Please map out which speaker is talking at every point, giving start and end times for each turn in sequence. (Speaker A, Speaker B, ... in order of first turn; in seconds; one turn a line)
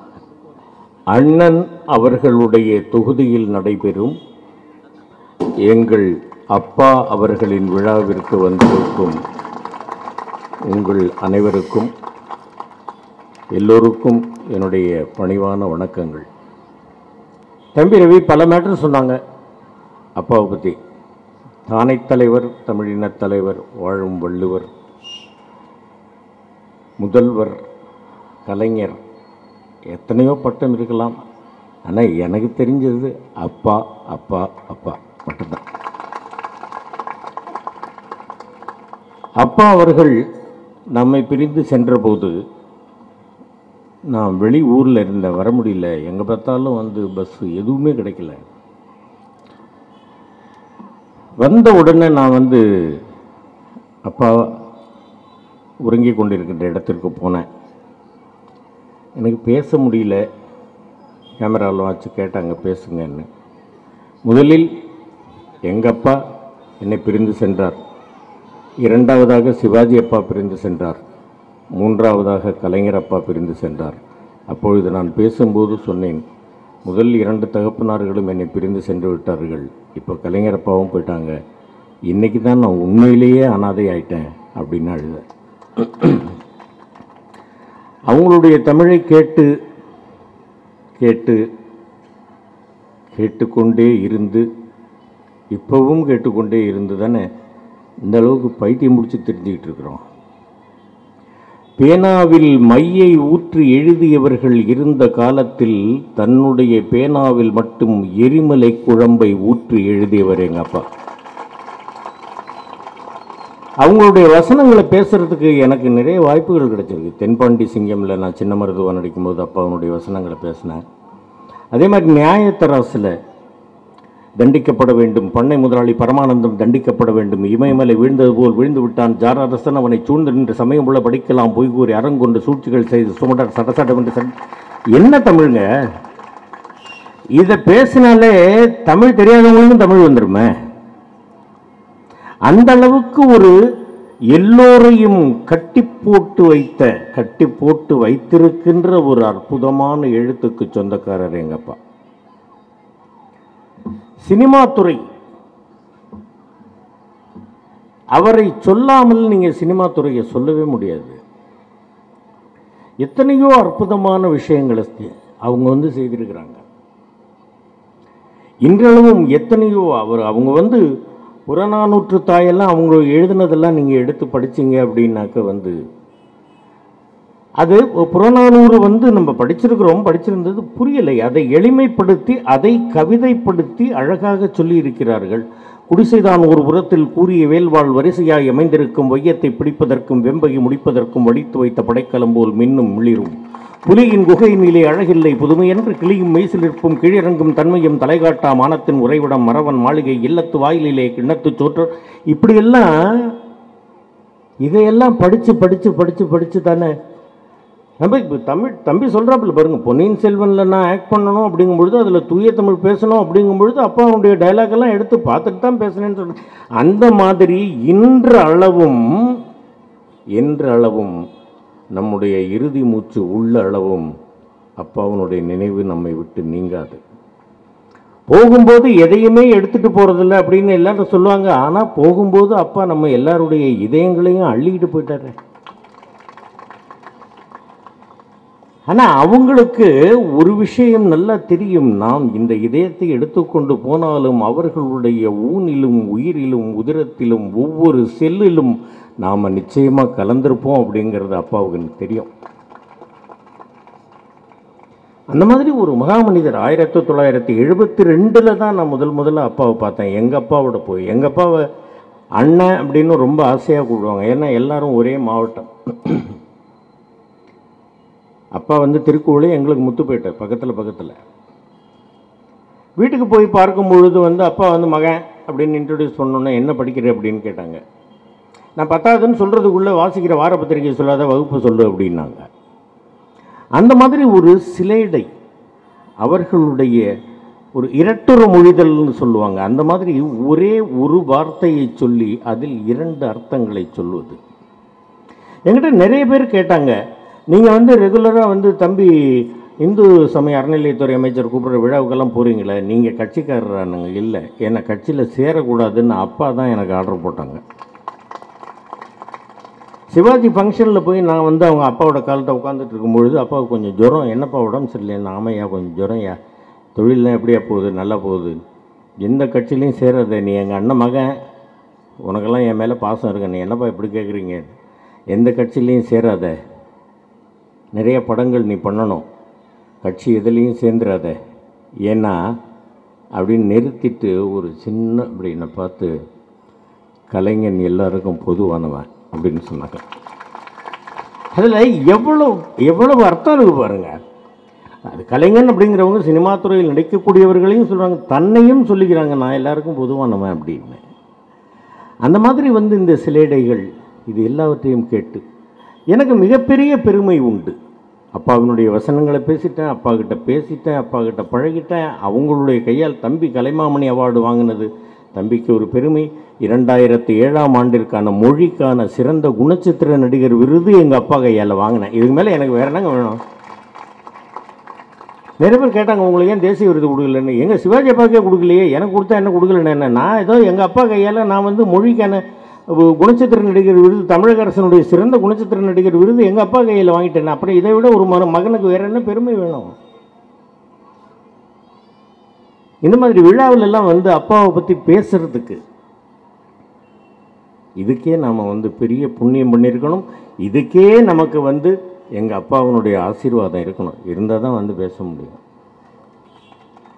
Speaker A: 1.1-4.2
Speaker A: 5.7-9.2
Speaker A: 10.7-11.9
Speaker A: 13.5-16.3
Speaker A: 17.7-19.2
Speaker A: 20.2-20.8
Speaker A: 21.7-24.7
Speaker A: 27.0-27.6
Speaker A: 28.4-29.0
Speaker A: 29.9-31.2
Speaker A: 31.9-35.6
Speaker A: 39.4-40.1
Speaker A: 40.9-42.4
Speaker A: 44.1-48.4
Speaker A: 51.4-53.0
Speaker A: 54.0-54.5
Speaker A: 55.8-57.4
Speaker A: 59.2-60.2
Speaker A: 61.4-63.3
Speaker A: 64.2-64.7
Speaker A: 65.7-66.2
Speaker A: 66.8-67.8
Speaker A: 68.8-71.0
Speaker A: 71.8-76.2
Speaker A: 76.8-81.4
Speaker A: 82.1-85.2
Speaker A: 85.8-86.3
Speaker A: 88.1-89.5
Speaker A: 91.0-91.4
Speaker A: 93.1-94.5
Speaker A: 95.5-97.3
Speaker A: 98.1-100.0
Speaker A: 101.8-110.8
Speaker A: 113.8-120.8
Speaker A: 121.7-123.1
Speaker A: 124.4-134.3
Speaker A: 134.9-135.7
Speaker A: 137.4-140.5
Speaker A: 142.5-143.6
Speaker A: 144.3-151.8
Speaker A: 154.2-155.0
Speaker A: 158.1-161.2
Speaker A: 163.0-166.6
Speaker A: 168.6-170.8
Speaker A: 171.5-175.8
Speaker A: 177.6-203.4
Speaker A: 204.6-206.9
Speaker A: 208.0-219.3
Speaker A: 220.4-221.2
Speaker A: 221.9-224.1
Speaker A: 224.8-227.0
Speaker A: 228.3-235.3
Speaker A: 238.9-252.3
Speaker A: 255.3-261.7
Speaker A: 262.4-266.4
Speaker A: 268.5-271.2
Speaker A: 273.0-277.8
Speaker A: 278.8-282.4
Speaker A: 283.8-285.3
Speaker A: 286.2-287.1
Speaker A: 287.8-294.4
Speaker A: 295.7-296.9
Speaker A: 297.5-307.6
Speaker A: 310.1-316.4
Speaker A: 316.9-318.6
Speaker A: 319.2-321.3
Speaker A: 322.3-324.7
Speaker A: 325.3-326.6
Speaker A: 327.9-329.2
Speaker A: 330.0-331.4
Speaker A: 332.1-332.4
Speaker A: 333.4-336.1
Speaker A: 337.3-340.0
Speaker A: 341.5-344.1
Speaker A: 345.1-351.0
Speaker A: 352.2-355.4
Speaker A: 356.1-357.7
Speaker A: 358.3-373.4
Speaker A: 375.6-389.9
Speaker A: 393.0-395.8
Speaker A: 398.0-405.6